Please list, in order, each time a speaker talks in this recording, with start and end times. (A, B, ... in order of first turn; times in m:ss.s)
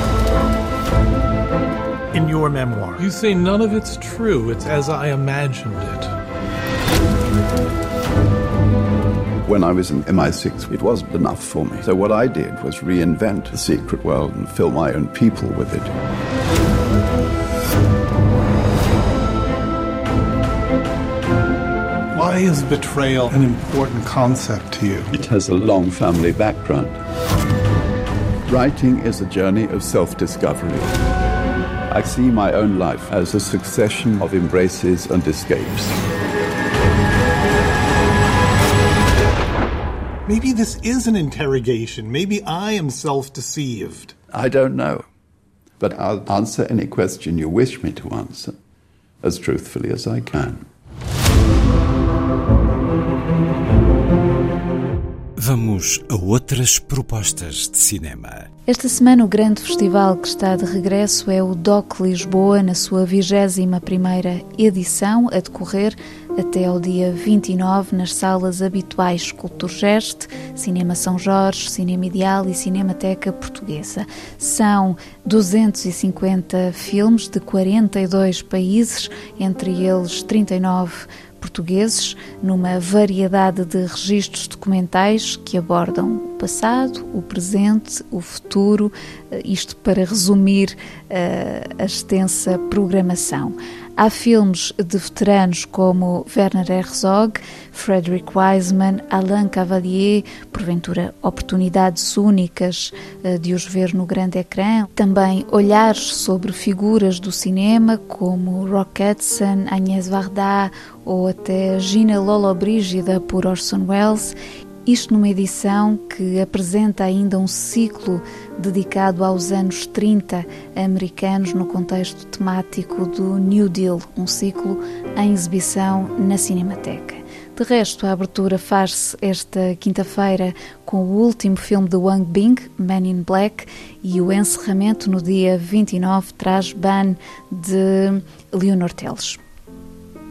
0:02.1-0:06.1 A
0:09.4-0:15.9 B
0:22.1-0:25.1 A
0:25.1-0:27.0 B
0:28.4-0:30.9 B
0:31.9-0:36.0 B
0:40.2-0:44.1 A
0:44.3-0:45.0 B
0:45.8-0:48.6 B
0:49.2-0:50.6 B
0:55.4-0:58.5 C
0:58.7-1:54.3 D
1:54.8-2:19.4 D